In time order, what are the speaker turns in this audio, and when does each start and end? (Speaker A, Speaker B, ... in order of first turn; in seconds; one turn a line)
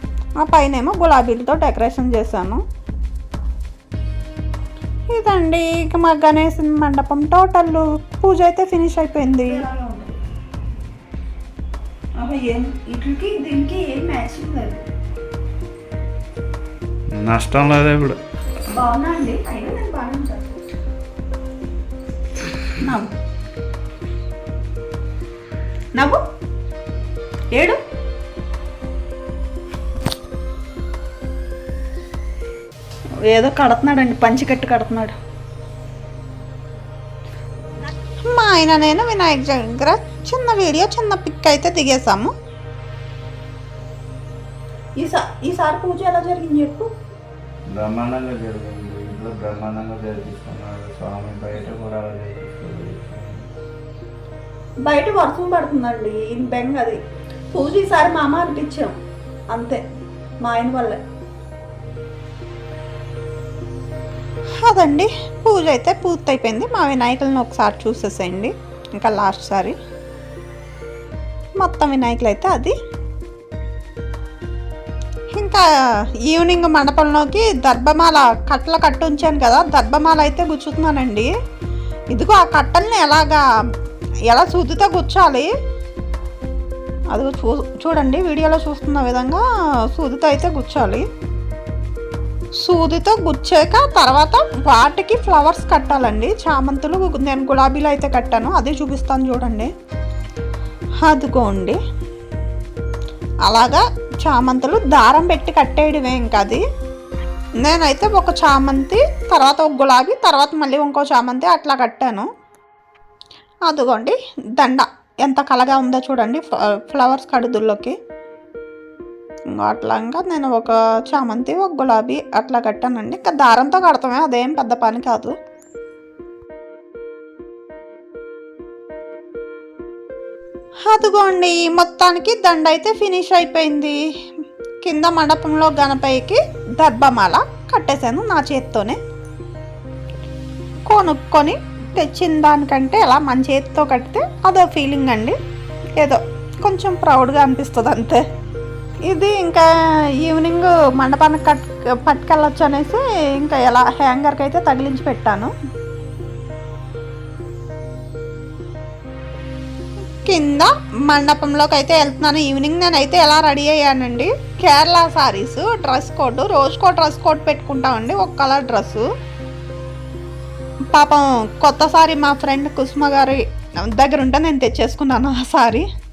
Speaker A: 0.4-2.6
Speaker A: 5.1-9.6
Speaker B: 9.4-10.1
Speaker B: 12.2-14.8
Speaker C: 17.1-18.2
Speaker B: 18.7-20.6
Speaker B: 33.3-35.1
Speaker A: 38.3-42.3
Speaker B: 45.0-46.9
Speaker C: 47.7-53.7
Speaker B: 54.9-57.0
Speaker B: 57.5-58.9
Speaker B: 59.5-59.8
Speaker B: 60.4-61.0
Speaker A: 64.6-69.8
Speaker A: 71.6-72.7
Speaker A: 75.3-75.6
Speaker A: 76.3-81.3
Speaker A: 82.1-83.4
Speaker A: 84.3-85.5
Speaker A: 87.1-89.4
Speaker A: 89.9-91.0
Speaker A: 92.6-99.7
Speaker A: 101.0-101.8
Speaker A: 103.4-106.6
Speaker A: 107.6-112.3
Speaker A: 113.7-118.0
Speaker A: 119.5-125.3
Speaker A: 130.9-134.0
Speaker A: 134.8-139.0
Speaker A: 140.9-145.4
Speaker A: 146.0-148.2
Speaker A: 149.1-149.7
Speaker A: 150.2-155.5
Speaker A: 160.2-169.1
Speaker A: 170.9-173.4
Speaker A: 173.9-175.9